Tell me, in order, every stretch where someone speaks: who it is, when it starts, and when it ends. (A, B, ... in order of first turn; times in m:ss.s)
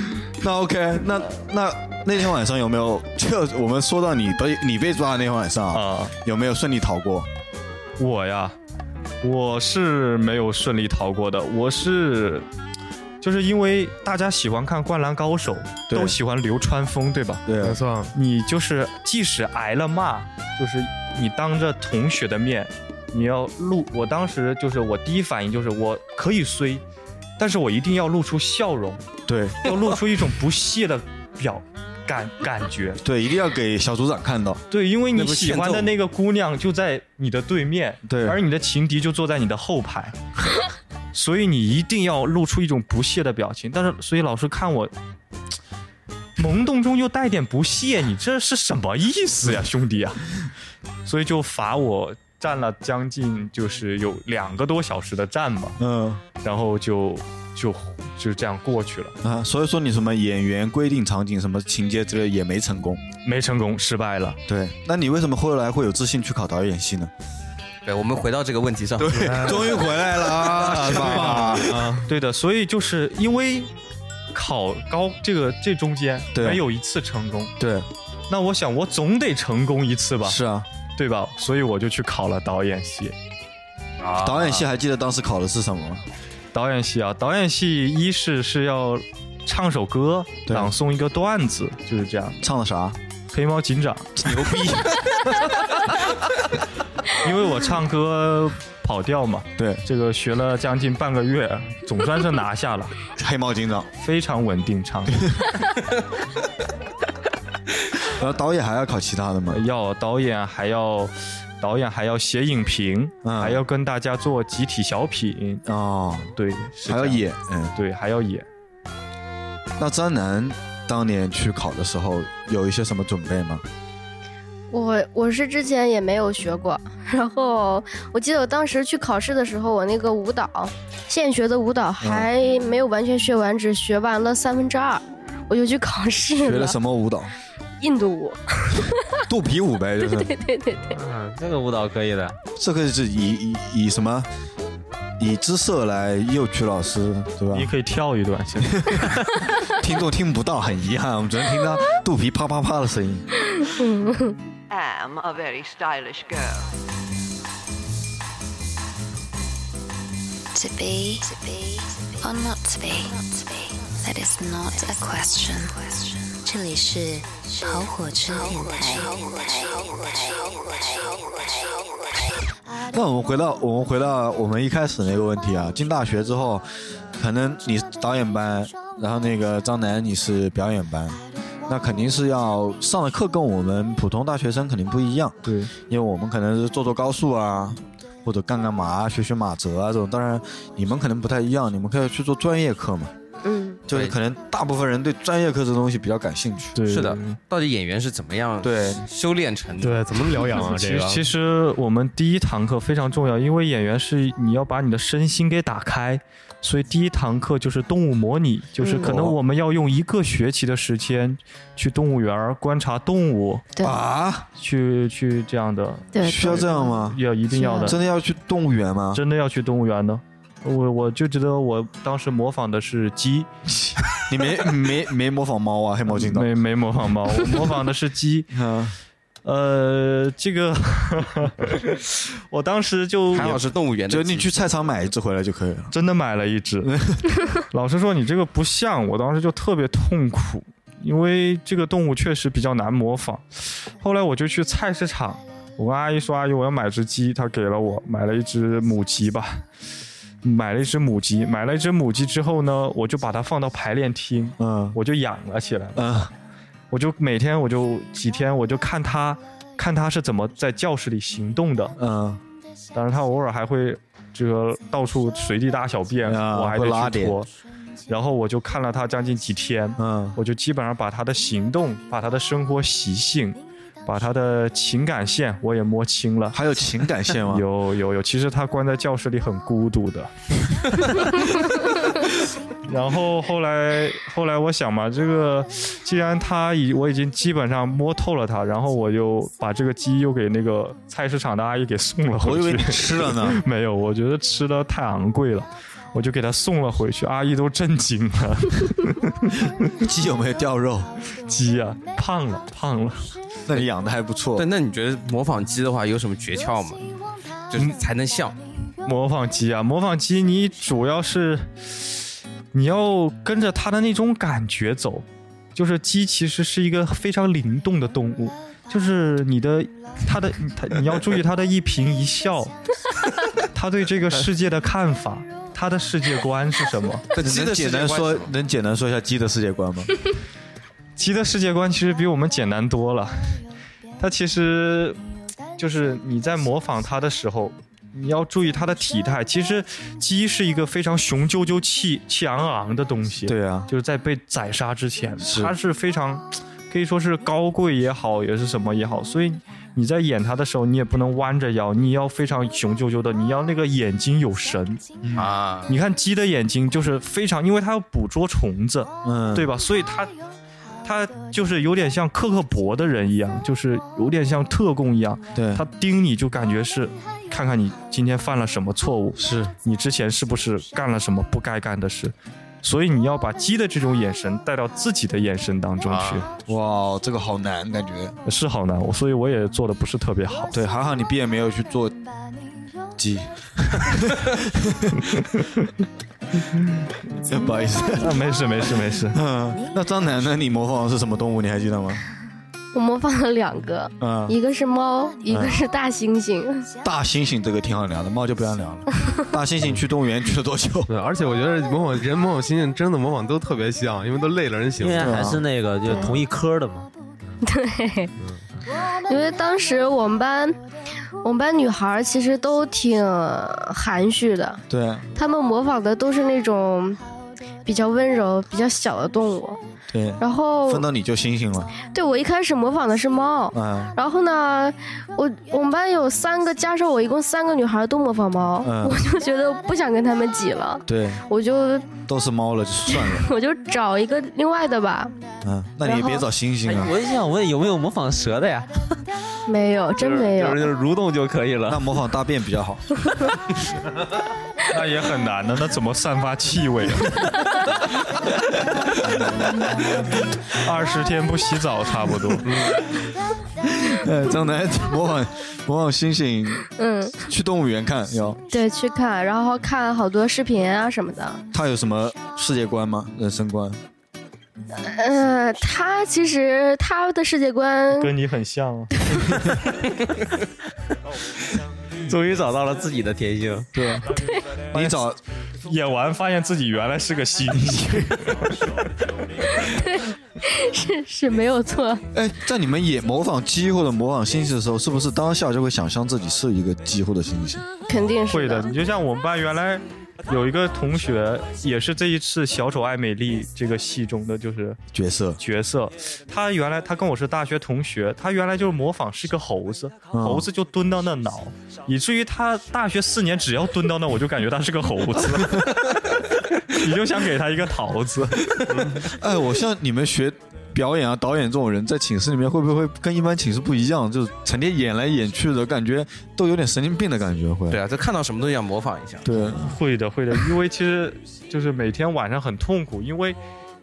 0:00.4-0:07.3 A
0:05.7-0:06.1 B
0:08.0-0:08.6 B
0:09.2-0:12.5 B
0:13.2-0:17.4 B
0:15.9-0:16.2 A
0:17.4-0:17.8 A
0:17.6-0:18.1 C
0:18.1-0:26.8 B
0:27.4-0:29.0 B
0:29.3-0:29.6 A
0:29.6-0:33.0 B
0:33.0-0:34.6 A
0:34.7-0:40.2 B
0:35.1-0:35.9 D
0:38.1-0:38.4 A
0:41.1-0:44.9 B
0:46.4-0:50.3 B
0:51.0-0:55.8 B
0:55.8-0:56.2 A
0:56.4-0:59.1 B
0:59.2-1:03.0 A
1:03.2-1:04.4 B
1:04.5-1:07.1 A
1:07.8-1:10.0 D
1:09.0-1:11.9 A
1:09.2-1:09.7 C
1:10.7-1:12.1 C
1:11.3-1:13.7 B
1:14.3-1:17.5 B
1:16.3-1:16.6 A
1:17.6-1:17.9 A
1:18.3-1:20.4 B
1:20.2-1:20.7 A
1:20.9-1:23.1 B
1:24.0-1:24.7 D
1:24.2-1:26.0 A
1:26.5-1:32.4 B
1:30.4-1:30.7 A
1:32.4-1:33.0 A
1:33.3-1:34.3 B
1:34.2-1:35.4 A
1:37.1-1:42.9 B
1:39.6-1:39.8 A
1:43.2-1:43.9 A
1:44.0-1:45.3 B
1:45.2-1:45.5 A
1:48.0-1:49.6 A
1:49.5-1:55.6 B
1:53.2-1:53.6 A
1:55.6-1:56.3 A
1:56.3-1:57.2 B
1:56.9-1:57.7 A
1:57.8-1:58.5 B
1:59.8-2:03.6 A
2:04.7-2:16.8 E
2:12.0-2:12.3 A
2:16.4-2:17.3 A
2:17.8-2:19.2 E
2:19.3-2:20.3 A
2:20.0-2:21.0 E
2:20.9-2:22.4 F
2:22.6-2:24.3 A
2:25.2-2:27.7 A
2:27.5-2:29.2 B
2:28.7-2:33.3 A
2:33.6-2:34.4 E
2:34.7-2:36.7 G
2:40.5-2:52.3 H
2:52.9-3:13.1 A
3:05.4-3:05.7 B
3:13.4-3:13.8 E
3:13.9-3:16.8 A
3:13.9-3:14.2 D
3:16.8-3:17.4 B
3:16.9-3:20.6 D
3:18.6-3:19.0 A
3:19.8-3:21.3 C
3:20.6-3:33.6 B
3:28.8-3:29.1 E
3:29.0-3:29.4 A
3:33.8-3:34.5 A
3:34.6-3:38.0 B
3:36.1-3:36.9 E
3:36.2-3:37.2 A
3:37.5-3:38.0 E
3:37.8-3:39.2 A
3:39.1-3:43.5 B
3:43.7-3:46.5 A
3:46.1-3:48.5 B
3:48.5-3:48.9 A
3:49.4-3:53.6 B
3:53.3-3:54.5 D
3:54.1-3:55.9 A
3:55.9-3:56.9 B
3:56.8-3:57.3 A
3:57.7-4:09.6 B
4:10.4-4:16.3 B
4:14.6-4:15.0 A
4:15.9-4:16.3 A
4:16.9-4:22.0 B
4:22.0-4:22.4 A
4:22.9-4:27.5 B
4:26.2-4:27.4 A
4:28.1-4:36.6 B
4:30.0-4:30.4 A
4:36.5-4:37.6 A
4:37.5-4:41.7 B
4:42.8-4:59.7 B
4:52.4-4:53.6 A
5:00.0-5:01.1 A
5:01.4-5:03.3 B
5:03.7-5:04.6 A
5:04.6-5:07.1 D
5:07.7-5:08.6 D
5:09.0-5:12.1 B
5:12.7-5:22.7 B
5:23.7-5:27.3 B
5:27.3-5:28.5 D
5:27.4-5:30.1 A
5:31.2-5:33.6 B
5:34.2-5:35.2 B
5:35.8-5:55.0 B
5:43.4-5:43.9 A
5:45.4-5:45.7 A
5:55.2-5:55.5 A
5:55.4-5:55.9 D
5:55.9-6:00.3 B
5:59.2-5:59.7 A
6:01.0-6:16.5 B
6:05.5-6:05.8 A
6:09.4-6:09.7 A
6:16.0-6:16.4 D
6:16.7-6:18.4 A
6:18.4-6:20.8 B
6:20.7-6:22.2 A
6:23.2-6:25.2 A
6:25.5-6:25.9 B
6:26.7-6:27.0 B
6:27.4-6:28.4 A
6:28.2-6:29.4 B
6:29.3-6:32.2 A
6:32.9-6:36.9 E
6:34.2-6:34.6 A
6:35.5-6:35.8 A
6:37.0-6:41.1 A
6:41.1-6:45.4 C
6:45.0-6:47.1 F
6:45.2-6:45.6 A
6:46.1-6:46.4 E
6:47.6-6:48.3 E
6:49.3-6:50.8 E
6:51.4-6:54.8 E
6:54.9-6:55.3 A
6:55.4-6:57.2 E
6:57.8-6:59.8 E
7:00.1-7:01.9 A
7:00.4-7:01.0 E
7:02.1-7:12.2 E
7:03.7-7:04.2 A
7:08.8-7:09.2 A
7:11.1-7:11.4 A
7:12.3-7:13.5 A
7:13.1-7:15.3 E
7:15.6-7:17.1 A
7:16.0-7:16.4 E
7:16.9-7:19.2 F
7:19.7-7:20.9 E
7:20.2-7:22.0 F
7:21.9-7:23.1 A
7:24.9-7:27.6 B
7:30.7-7:32.7 B
7:32.6-7:33.0 C
7:33.8-7:36.8 A
7:37.0-7:37.4 E
7:37.4-7:38.6 A
7:38.7-7:41.6 E
7:41.7-7:44.0 A
7:45.0-7:48.3 E
7:48.2-7:49.6 B
7:49.3-7:49.6 E
7:52.2-7:53.9 F
7:53.9-7:54.4 A
7:54.3-7:54.6 E
7:54.9-7:55.4 A
7:54.9-7:55.2 B
7:55.8-7:58.8 B
7:57.8-7:58.3 A
7:59.8-8:02.2 E
8:02.3-8:07.8 A
8:08.1-8:08.9 E
8:08.5-8:15.0 B
8:15.1-8:15.6 A
8:15.6-8:28.8 B
8:20.3-8:20.7 A
8:29.2-8:38.0 A
8:37.9-8:39.7 D
8:39.4-8:40.0 A
8:39.7-8:43.6 B